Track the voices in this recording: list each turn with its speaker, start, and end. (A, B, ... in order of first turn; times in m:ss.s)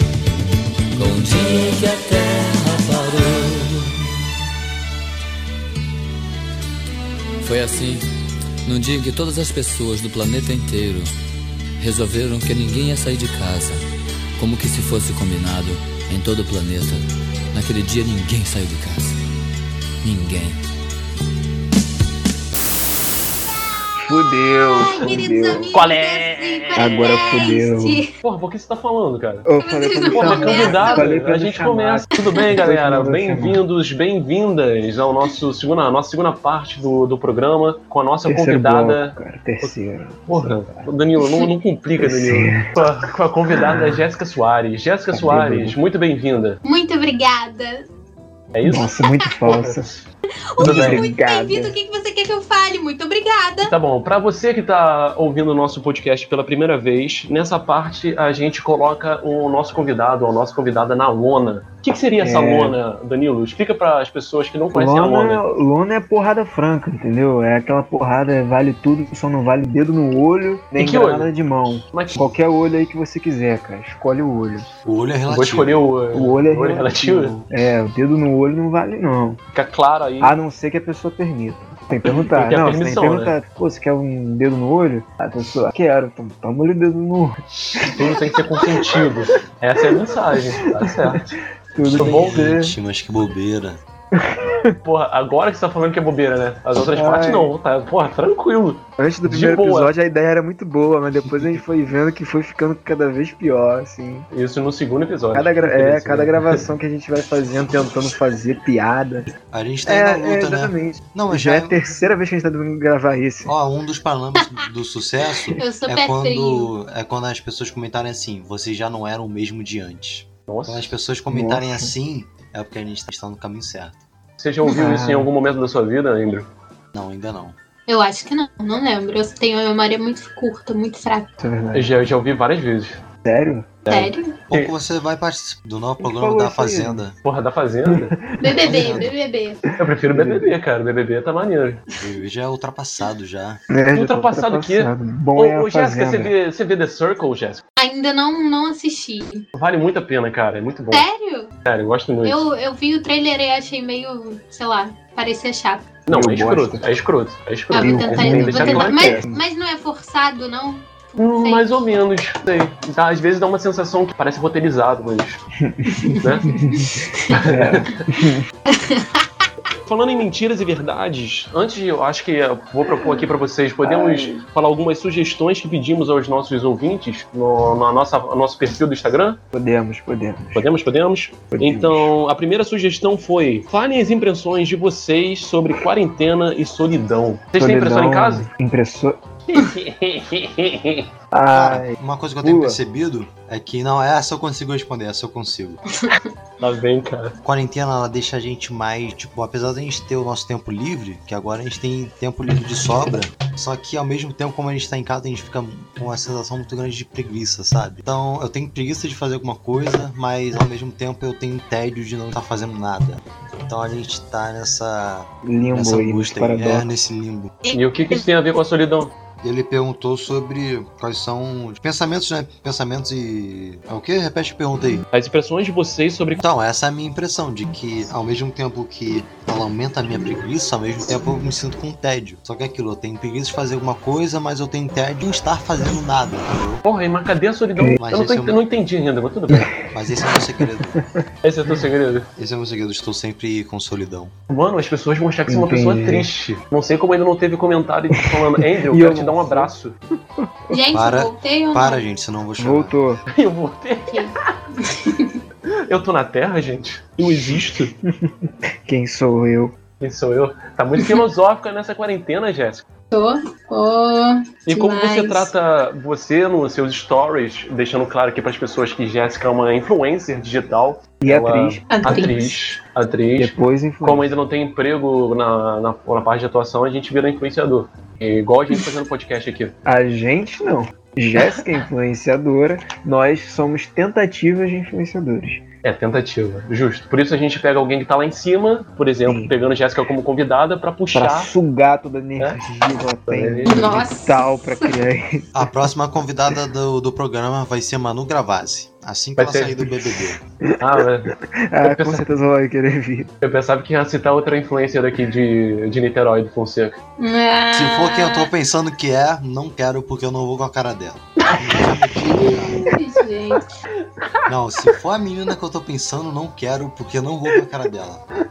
0:00.9-0:04.1 A
0:07.4-0:08.1 A
0:08.6-0:11.1 A
0:11.8-0:13.8 A
0:14.4-0:19.2 A
0:20.0-0:20.6 A
0:24.0-0:25.8 B
0:24.6-0:28.1 C
0:25.7-0:27.4 D
0:26.7-0:28.0 B
0:28.2-0:29.5 D
0:29.4-0:33.6 B
0:29.6-0:31.1 C
0:30.1-0:39.7 D
0:32.2-0:32.5 C
0:38.3-0:40.7 B
0:40.3-0:46.6 D
0:42.0-0:42.8 B
0:43.6-0:44.0 B
0:45.1-0:45.8 B
0:46.6-0:47.9 C
0:48.5-0:50.0 D
0:48.6-0:50.0 B
0:50.5-0:53.7 C
0:50.6-0:51.7 B
0:50.6-0:51.1 D
0:53.6-1:05.4 D
1:02.2-1:02.8 B
1:04.7-1:14.7 B
1:10.8-1:11.3 D
1:11.9-1:12.3 D
1:14.8-1:15.8 E
1:15.3-1:17.4 D
1:16.1-1:19.4 B
1:19.5-1:20.3 D
1:20.2-1:32.8 B
1:22.0-1:23.3 D
1:27.8-1:31.3 D
1:31.8-1:33.8 E
1:32.0-1:32.5 D
1:34.1-1:34.8 B
1:34.8-1:39.9 D
1:36.9-1:37.5 B
1:39.0-1:44.3 B
1:44.3-1:46.7 D
1:45.3-1:49.3 B
1:49.5-1:51.8 E
1:49.8-1:53.5 B
1:53.4-2:04.0 E
1:55.5-1:56.7 C
2:00.5-2:00.9 D
2:01.3-2:01.9 B
2:04.4-2:06.5 D
2:04.7-2:05.3 B
2:06.9-2:07.6 E
2:07.9-2:11.3 C
2:11.4-2:12.0 B
2:11.7-2:13.0 D
2:13.2-2:13.7 B
2:13.8-2:14.7 D
2:13.9-2:14.3 C
2:14.5-2:17.2 E
2:16.0-2:17.0 B
2:17.2-2:18.2 D
2:17.8-2:19.1 B
2:18.4-2:19.6 C
2:18.6-2:19.1 E
2:19.8-2:21.8 D
2:20.1-2:20.6 B
2:22.0-2:23.6 E
2:23.7-2:26.3 B
2:23.9-2:27.6 D
2:27.8-2:29.4 C
2:29.5-2:31.0 D
2:30.9-2:31.5 C
2:31.6-2:32.4 D
2:32.2-2:35.9 C
2:36.1-2:39.2 D
2:36.1-2:36.8 B
2:37.7-2:41.7 C
2:37.7-2:39.4 B
2:41.2-2:45.4 D
2:45.6-2:48.5 B
2:45.9-2:47.3 C
2:46.2-2:46.5 D
2:47.3-2:48.1 D
2:48.7-2:49.4 C
2:49.8-2:59.4 D
2:53.8-2:54.3 B
2:59.5-3:00.7 B
3:00.5-3:08.5 D
3:01.5-3:02.1 B
3:07.6-3:09.2 B
3:09.5-3:11.1 D
3:11.3-3:12.8 B
3:11.5-3:15.8 E
3:16.6-3:17.4 D
3:17.4-3:37.5 E
3:35.4-3:36.9 B
3:37.6-3:38.2 C
3:37.7-3:39.1 D
3:39.4-3:45.0 E
3:45.1-3:46.4 D
3:46.4-3:56.8 E
3:56.8-3:59.8 D
3:58.0-3:58.6 E
3:59.5-4:01.2 B
3:59.9-4:01.0 E
4:01.4-4:02.3 D
4:02.4-4:04.3 E
4:04.5-4:09.9 D
4:05.5-4:06.3 B
4:08.1-4:09.7 B
4:10.7-4:12.0 C
4:10.9-4:12.9 E
4:12.6-4:13.3 B
4:13.3-4:14.5 D
4:14.1-4:15.4 C
4:15.7-4:17.9 D
4:18.0-4:19.7 B
4:20.0-4:22.8 D
4:23.1-4:25.5 C
4:24.7-4:39.7 D
4:31.2-4:32.3 B
4:31.9-4:32.6 C
4:33.4-4:34.3 B
4:39.8-4:45.6 B
4:45.8-4:51.5 D
4:49.2-4:49.5 B
4:51.1-4:55.7 B
4:53.3-4:54.0 D
4:53.6-4:54.9 C
4:55.5-5:00.4 E
4:59.4-4:59.8 D
5:00.0-5:03.3 B
5:00.8-5:02.2 D
5:03.4-5:07.0 D
5:07.2-5:08.5 C
5:07.7-5:12.9 E
5:12.3-5:13.6 C
5:14.5-5:18.2 E